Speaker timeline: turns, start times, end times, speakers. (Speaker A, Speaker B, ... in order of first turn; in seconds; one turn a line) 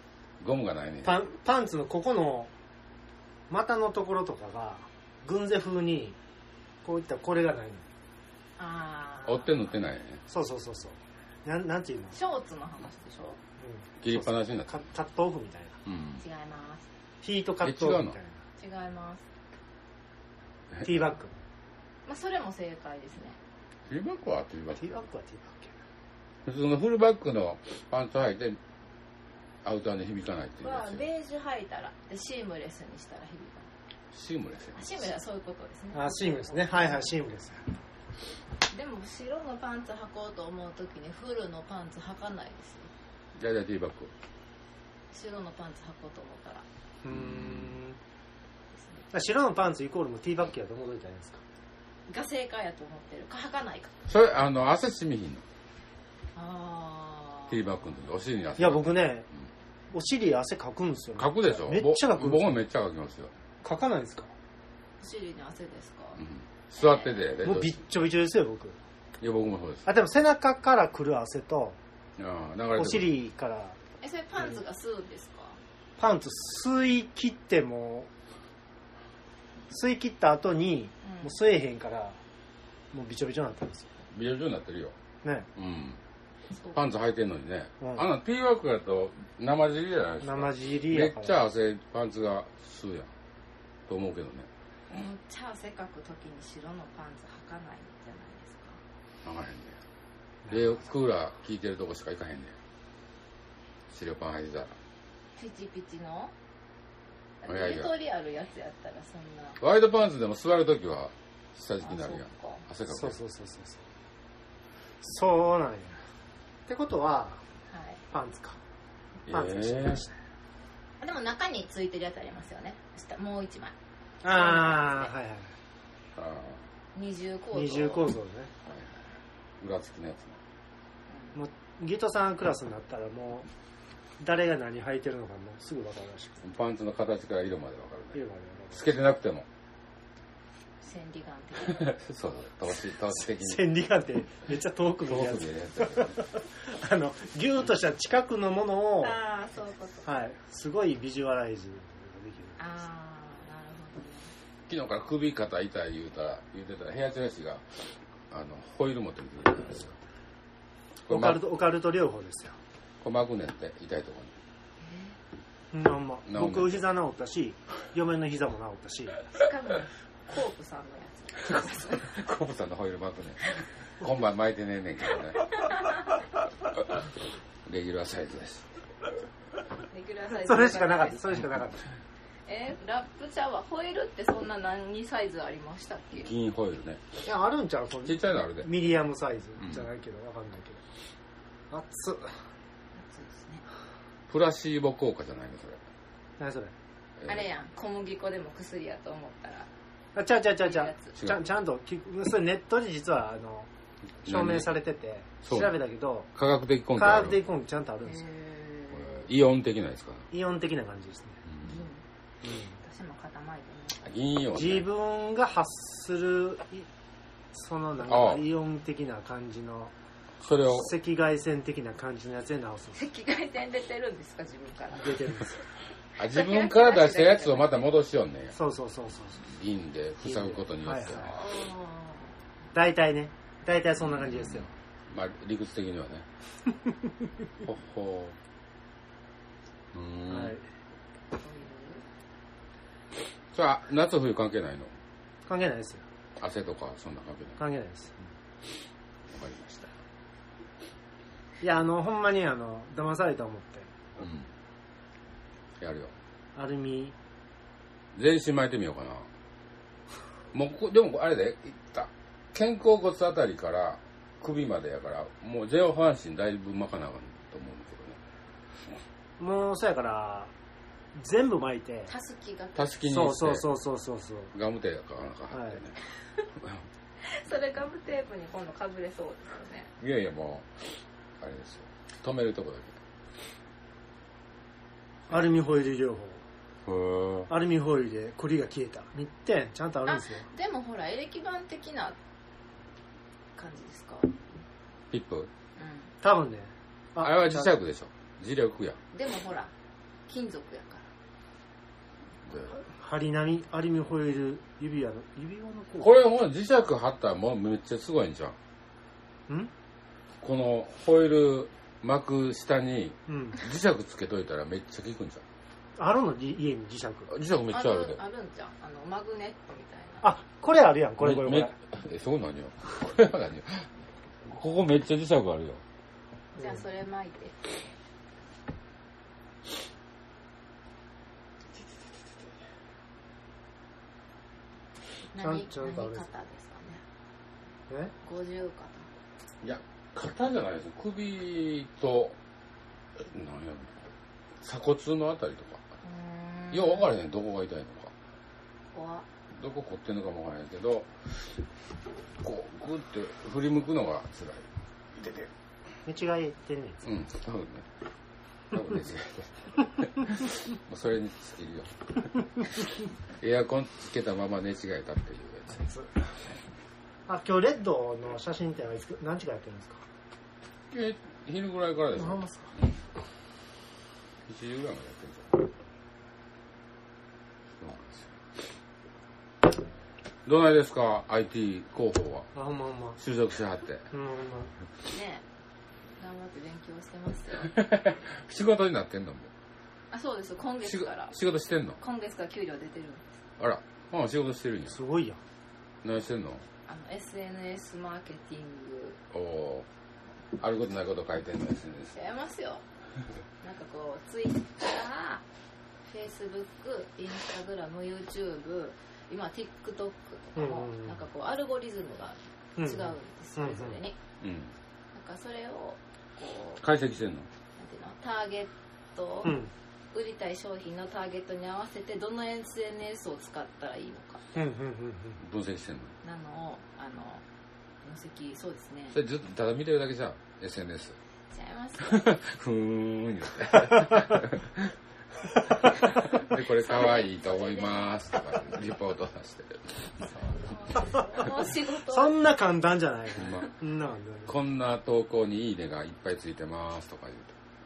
Speaker A: 0.4-1.2
Speaker B: 1.0-2.5
Speaker B: 3.5-6.2
Speaker B: 6.8-7.8
Speaker C: 8.6-9.6
Speaker A: 9.2-10.2
Speaker B: 10.3-12.2
Speaker C: 12.1-13.4
Speaker B: 13.6-15.8
Speaker A: 14.0-14.8
Speaker A: 15.8-16.2
Speaker C: 16.2-16.9
Speaker B: 17.2-18.4
Speaker A: 17.6-18.1
Speaker C: 18.6-19.2
Speaker B: 20.8-21.4
Speaker C: 22.1-23.4
Speaker A: 23.9-25.0
Speaker B: 24.8-25.7
Speaker A: 26.4-28.6
Speaker A: 29.6-31.0
Speaker C: 30.6-33.7
Speaker A: 34.1-34.9
Speaker C: 34.7-37.1
Speaker B: 35.9-37.6
Speaker C: 38.7-42.9
Speaker A: 43.4-44.1
Speaker C: 45.1-46.6
Speaker B: 47.0-48.0
Speaker A: 47.1-47.8
Speaker B: 49.1-51.4
Speaker C: 52.1-53.9
Speaker A: 54.1-55.4
Speaker C: 56.3-57.7
Speaker A: 57.5-59.0
Speaker B: 58.6-59.2
Speaker B: 59.9-62.5
Speaker A: 61.2-63.3
Speaker B: 63.6-64.3
Speaker C: 65.0-66.2
Speaker A: 66.2-67.8
Speaker C: 66.8-67.2
Speaker B: 67.4-68.8
Speaker A: 69.2-69.9
Speaker B: 69.8-71.8
Speaker A: 72.2-73.1
Speaker B: 72.7-73.8
Speaker C: 74.0-75.6
Speaker B: 76.0-78.1
Speaker B: 79.7-82.2
Speaker C: 81.0-81.3
Speaker B: 82.9-83.9
Speaker A: 84.1-85.0
Speaker A: 85.5-86.0
Speaker A: 86.7-93.1
Speaker B: 87.8-88.0
Speaker B: 90.2-91.4
Speaker A: 93.9-94.5
Speaker C: 94.9-98.8
Speaker A: 99.2-99.8
Speaker B: 100.4-100.7
Speaker A: 100.5-102.6
Speaker A: 103.9-104.8
Speaker C: 105.3-106.3
Speaker C: 107.4-109.6
Speaker A: 107.5-107.9
Speaker A: 109.6-113.2
Speaker C: 111.8-112.6
Speaker B: 112.9-113.8
Speaker B: 115.0-116.0
Speaker B: 116.7-117.4
Speaker C: 117.7-118.0
Speaker B: 118.1-118.6
Speaker A: 119.3-120.0
Speaker B: 119.3-120.1
Speaker C: 121.0-123.7
Speaker B: 124.2-125.5
Speaker C: 124.2-125.1
Speaker A: 126.2-126.6
Speaker C: 126.9-128.1
Speaker B: 127.5-128.5
Speaker A: 129.6-130.4
Speaker C: 131.1-131.3
Speaker B: 131.3-133.5
Speaker B: 134.2-136.4
Speaker A: 136.4-138.2
Speaker B: 138.1-138.8
Speaker A: 138.7-139.5
Speaker C: 140.8-141.9
Speaker A: 141.7-143.6
Speaker B: 143.2-149.2
Speaker A: 145.1-146.2
Speaker C: 149.0-150.1
Speaker B: 150.1-152.6
Speaker C: 152.6-154.3
Speaker A: 154.7-160.0
Speaker A: 161.1-161.4
Speaker B: 161.1-162.6
Speaker A: 163.0-164.3
Speaker C: 164.8-165.2
Speaker B: 165.7-169.2
Speaker A: 166.3-166.8
Speaker C: 169.3-172.0
Speaker A: 171.9-175.5
Speaker A: 177.6-178.7
Speaker C: 179.9-181.2
Speaker B: 180.3-181.9
Speaker C: 182.4-186.3
Speaker A: 186.2-187.0
Speaker B: 187.2-190.8
Speaker A: 188.0-188.7
Speaker A: 189.6-189.9
Speaker B: 191.7-192.4
Speaker C: 192.9-193.6
Speaker A: 194.3-195.8
Speaker B: 196.4-196.7
Speaker C: 197.2-199.7
Speaker B: 200.1-203.7
Speaker C: 200.6-201.1
Speaker A: 204.2-204.7
Speaker B: 204.2-206.3
Speaker A: 205.4-205.8
Speaker A: 206.3-207.4
Speaker B: 206.9-208.2
Speaker C: 208.1-209.2
Speaker A: 208.9-210.3
Speaker B: 210.3-211.4
Speaker C: 211.6-212.0
Speaker C: 212.7-214.0
Speaker A: 214.0-214.9
Speaker B: 214.5-216.9
Speaker B: 217.5-219.9
Speaker A: 218.0-218.4
Speaker A: 220.4-220.9
Speaker B: 220.7-223.0
Speaker C: 222.9-225.2
Speaker B: 225.0-225.5
Speaker A: 226.2-228.6
Speaker C: 226.2-227.7
Speaker B: 228.5-229.4
Speaker A: 229.4-231.4
Speaker B: 230.2-231.3
Speaker C: 231.2-232.4
Speaker B: 232.7-234.7
Speaker A: 234.0-236.3
Speaker A: 237.6-238.4
Speaker A: 239.9-240.6
Speaker B: 240.3-240.6
Speaker C: 241.3-242.1
Speaker A: 243.5-244.9
Speaker B: 245.5-246.0
Speaker A: 246.4-247.6
Speaker B: 247.6-248.1
Speaker A: 249.3-249.9
Speaker B: 251.6-253.9
Speaker A: 254.2-254.5
Speaker A: 255.8-256.1
Speaker B: 256.5-257.1
Speaker A: 258.1-259.3
Speaker A: 260.5-268.2
Speaker B: 269.4-270.5
Speaker B: 271.1-272.1
Speaker C: 272.1-272.9
Speaker A: 272.7-273.7
Speaker B: 273.0-274.5
Speaker A: 274.5-275.9
Speaker B: 275.5-275.8
Speaker C: 277.2-279.9
Speaker A: 280.0-283.0
Speaker B: 285.3-286.4
Speaker A: 286.9-287.5
Speaker B: 287.5-290.5
Speaker C: 290.1-292.2
Speaker C: 293.6-294.4
Speaker A: 295.1-295.5
Speaker C: 295.8-296.1
Speaker B: 296.2-297.7
Speaker A: 297.2-299.0
Speaker C: 299.1-299.7
Speaker C: 300.3-301.1
Speaker A: 302.5-302.8
Speaker B: 302.7-306.1
Speaker A: 306.0-308.6
Speaker A: 310.4-315.4
Speaker B: 313.3-313.6
Speaker B: 315.9-317.3
Speaker A: 317.3-318.2
Speaker C: 317.7-320.3
Speaker B: 320.2-321.7
Speaker A: 321.2-323.9
Speaker A: 324.4-325.8
Speaker C: 326.6-327.8
Speaker C: 335.3-337.0
Speaker B: 335.4-336.3
Speaker C: 338.2-339.1
Speaker A: 339.6-342.4
Speaker A: 343.2-343.9
Speaker A: 344.6-345.8
Speaker C: 346.0-347.1
Speaker A: 346.7-348.1
Speaker C: 348.9-349.2
Speaker A: 349.5-351.6
Speaker A: 352.4-354.7
Speaker B: 356.0-357.0
Speaker A: 357.0-357.9
Speaker A: 358.7-362.3
Speaker A: 363.3-365.9
Speaker B: 365.8-366.1
Speaker B: 367.3-370.0
Speaker A: 370.9-372.8
Speaker B: 372.1-372.7
Speaker A: 374.4-375.6
Speaker A: 377.8-378.3
Speaker A: 380.4-382.5
Speaker B: 382.5-383.2
Speaker A: 383.2-384.1
Speaker B: 384.1-384.7
Speaker C: 385.1-385.4
Speaker C: 386.2-387.7
Speaker A: 387.6-389.5
Speaker C: 390.1-391.3
Speaker A: 390.8-392.0
Speaker C: 392.0-393.3
Speaker A: 393.6-395.0
Speaker B: 394.9-395.4
Speaker A: 396.0-396.6
Speaker C: 396.9-399.2
Speaker A: 399.3-399.9
Speaker A: 400.6-402.1
Speaker C: 402.1-402.8
Speaker C: 403.6-405.4
Speaker C: 406.1-414.2
Speaker B: 410.6-411.2
Speaker B: 412.8-414.0
Speaker A: 414.4-414.7
Speaker C: 415.1-416.8
Speaker A: 416.8-417.5
Speaker C: 417.8-419.6
Speaker B: 419.4-419.7
Speaker C: 420.1-424.4
Speaker B: 424.5-425.4
Speaker A: 425.4-426.1
Speaker C: 426.2-427.4
Speaker C: 428.0-429.2
Speaker A: 429.1-431.2
Speaker C: 431.5-432.2
Speaker A: 432.0-434.9
Speaker A: 435.8-440.3
Speaker C: 436.8-438.1
Speaker C: 440.2-442.4
Speaker B: 441.9-444.5
Speaker A: 443.4-443.7
Speaker A: 444.5-447.5